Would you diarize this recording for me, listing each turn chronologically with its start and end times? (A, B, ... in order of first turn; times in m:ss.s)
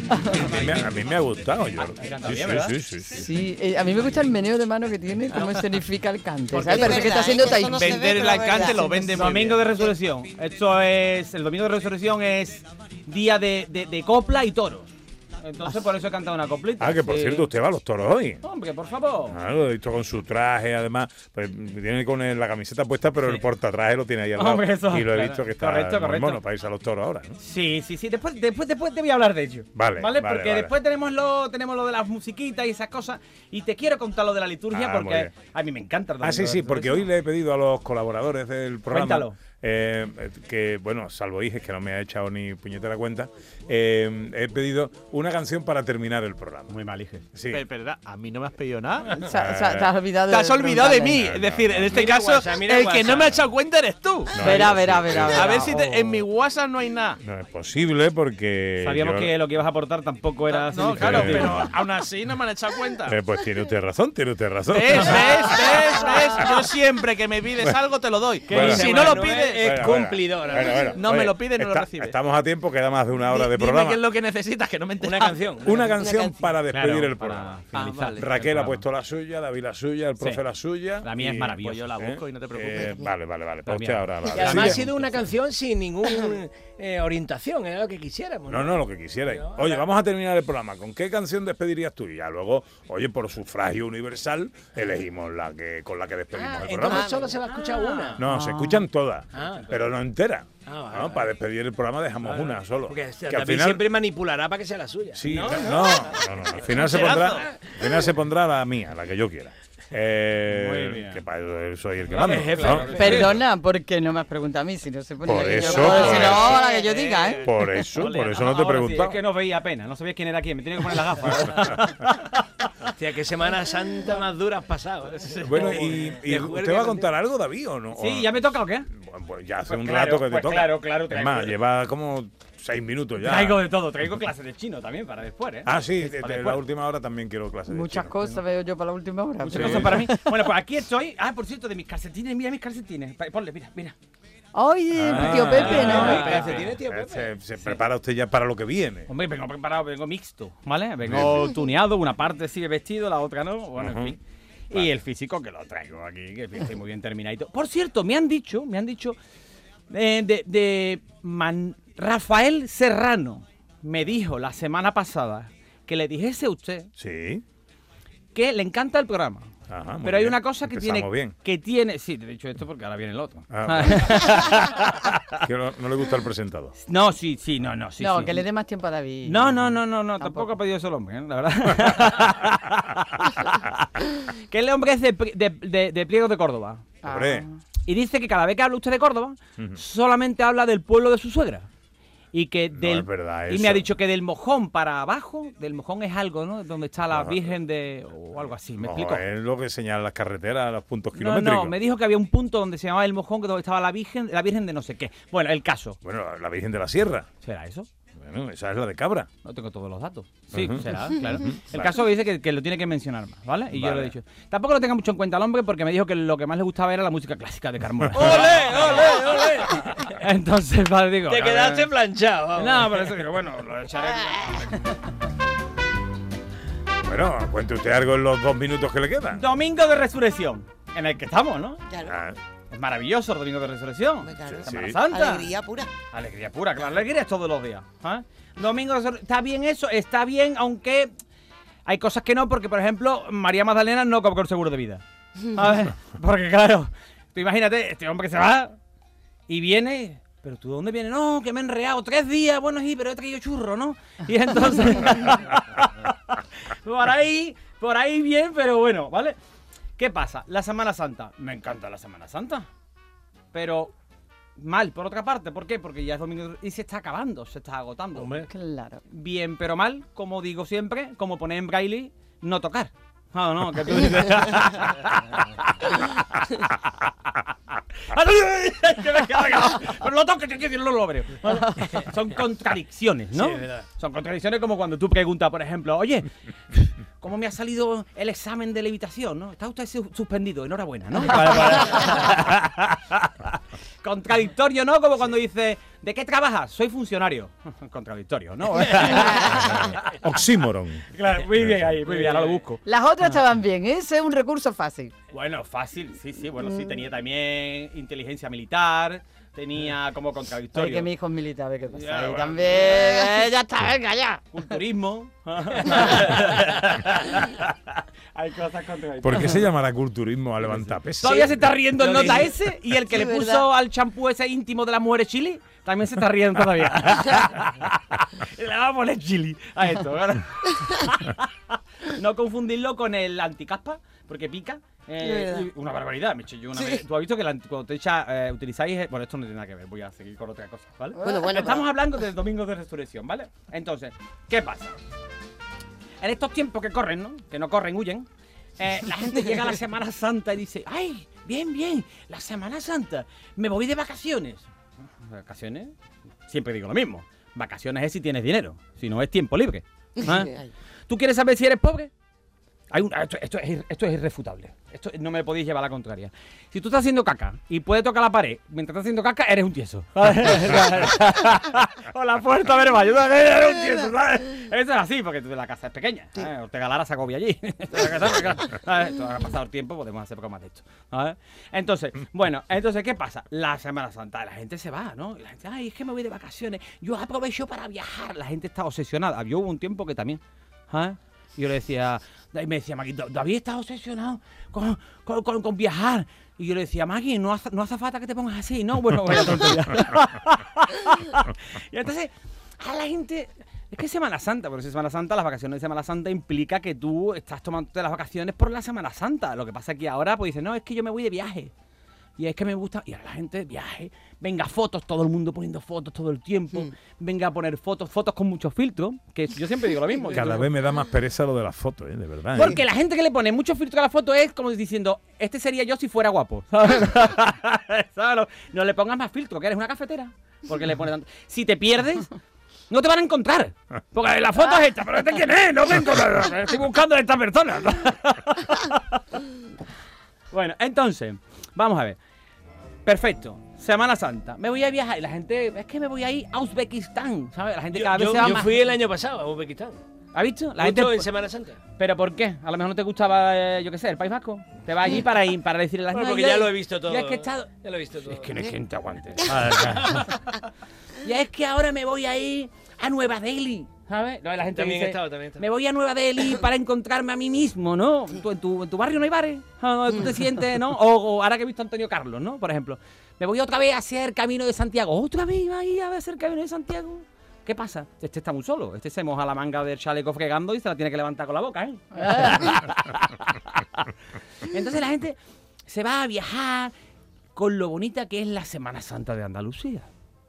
0:00.1-0:00.5 A
0:00.3-0:03.2 B
0:01.9-0:02.8 C
0:03.0-0:07.8 A
0:06.5-0:08.9 D
0:07.8-0:09.7 E
0:08.7-0:09.1 A
0:09.0-0:17.3 C
0:16.8-0:18.4 B
0:18.4-0:19.4 C
0:19.3-0:27.4 B
0:23.2-0:23.4 C
0:24.3-0:26.4 C
0:27.4-0:37.1 C
0:29.8-0:30.7 B
0:34.7-0:35.3 B
0:36.2-0:46.7 B
0:38.9-0:39.4 C
0:46.7-0:47.2 C
0:47.3-0:47.6 B
0:47.5-0:49.1 E
0:49.1-0:51.2 A
0:49.2-0:50.0 B
0:50.3-0:54.6 E
0:51.1-0:52.2 B
0:51.9-0:53.4 F
0:54.3-0:55.7 B
0:54.4-0:56.2 A
0:55.2-0:57.2 E
0:57.2-0:59.3 B
0:58.8-1:01.7 C
1:00.5-1:03.2 E
1:00.8-1:01.7 B
1:03.0-1:06.7 B
1:04.7-1:10.0 E
1:07.6-1:07.8 B
1:08.4-1:14.1 B
1:08.5-1:11.0 F
1:10.5-1:12.1 E
1:13.2-1:15.7 E
1:15.0-1:16.0 F
1:15.6-1:24.9 B
1:15.9-1:16.5 D
1:16.6-1:17.1 E
1:17.1-1:18.8 C
1:17.7-1:18.7 E
1:20.2-1:20.4 C
1:21.0-1:21.9 C
1:21.6-1:22.9 E
1:22.7-1:23.1 D
1:23.6-1:25.2 C
1:24.3-1:29.8 F
1:28.5-1:37.1 B
1:36.5-1:38.2 F
1:36.9-1:37.4 D
1:37.4-1:38.8 C
1:38.2-1:43.8 B
1:39.3-1:39.7 F
1:39.4-1:39.8 C
1:40.6-1:41.3 F
1:42.2-1:45.8 F
1:45.2-1:53.2 B
1:45.2-1:46.0 C
1:46.6-1:47.9 F
1:46.9-1:47.4 C
1:50.5-1:51.2 C
1:52.1-1:53.4 F
1:52.6-1:53.2 C
1:52.9-1:57.5 A
1:55.2-1:56.7 B
1:55.7-1:57.4 E
1:57.3-1:59.2 B
1:58.0-2:02.9 C
2:01.6-2:01.9 B
2:03.0-2:07.1 F
2:05.4-2:13.6 B
2:07.9-2:08.9 C
2:09.6-2:11.6 C
2:13.2-2:16.6 C
2:15.6-2:18.2 B
2:17.7-2:20.5 A
2:19.4-2:23.9 C
2:19.5-2:20.1 B
2:24.5-2:26.2 A
2:25.0-2:29.1 B
2:25.2-2:27.3 F
2:25.4-2:26.8 C
2:27.6-2:27.8 C
2:29.1-2:39.2 C
2:31.0-2:31.5 B
2:33.8-2:34.1 B
2:39.9-2:46.9 C
2:47.0-2:47.4 B
2:48.3-2:55.4 C
2:49.7-2:51.3 B
2:53.5-2:54.6 B
2:55.4-2:56.7 B
2:56.8-2:58.4 C
2:58.0-3:00.5 A
2:59.2-3:06.9 C
3:07.0-3:07.4 B
3:07.0-3:07.5 A
3:07.8-3:11.7 C
3:12.3-3:19.2 C
3:12.7-3:13.9 B
3:17.1-3:17.6 B
3:18.7-3:21.8 B
3:21.1-3:26.0 C
3:26.0-3:27.3 B
3:27.4-3:27.9 C
3:28.2-3:29.3 B
3:29.4-3:41.9 C
3:30.5-3:31.9 B
3:33.7-3:34.1 B
3:38.1-3:39.8 F
3:41.3-3:43.1 F
3:42.5-3:45.0 C
3:47.0-3:49.4 B
3:49.3-3:51.8 C
3:51.9-3:52.2 D
3:52.0-3:52.4 B
3:52.7-3:55.5 C
3:54.2-3:55.9 D
3:54.4-3:55.0 B
3:56.1-4:01.1 C
4:01.8-4:08.8 C
4:09.5-4:19.4 C
4:20.0-4:22.7 C
4:23.5-4:23.9 C
4:24.6-4:28.4 C
4:28.1-4:28.5 F
4:28.4-4:29.0 A
4:29.1-5:00.2 C
4:43.4-4:43.8 F
4:59.4-5:02.0 B
5:01.1-5:02.8 C
5:02.8-5:05.1 A
5:05.3-5:11.1 C
5:06.6-5:06.9 A
5:10.7-5:14.4 A
5:11.9-5:13.4 C
5:14.3-5:19.7 C
5:19.2-5:21.7 B
5:20.6-5:45.0 C
5:22.0-5:22.5 D
5:23.1-5:23.6 D
5:35.2-5:35.7 D
5:36.7-5:37.0 D
5:41.2-5:41.8 D
5:46.2-5:54.7 C
5:55.2-5:55.9 C
5:56.5-6:00.6 C
6:00.2-6:00.7 D
6:01.1-6:02.1 C
6:02.9-6:51.7 C
6:52.4-7:00.7 C
7:00.3-7:02.8 B
7:02.5-7:12.3 C
7:12.9-7:19.4 C
7:20.5-7:22.2 C
7:23.0-7:28.8 C
7:27.9-7:30.0 F
7:30.3-7:31.3 C
7:30.8-7:31.8 F
7:32.0-7:37.7 C
7:36.1-7:38.6 F
7:38.2-7:40.5 C
7:39.8-7:40.2 F
7:41.2-8:04.1 C
7:44.6-7:45.6 F
8:02.2-8:02.6 A
8:04.6-8:06.9 C
8:07.6-8:10.1 C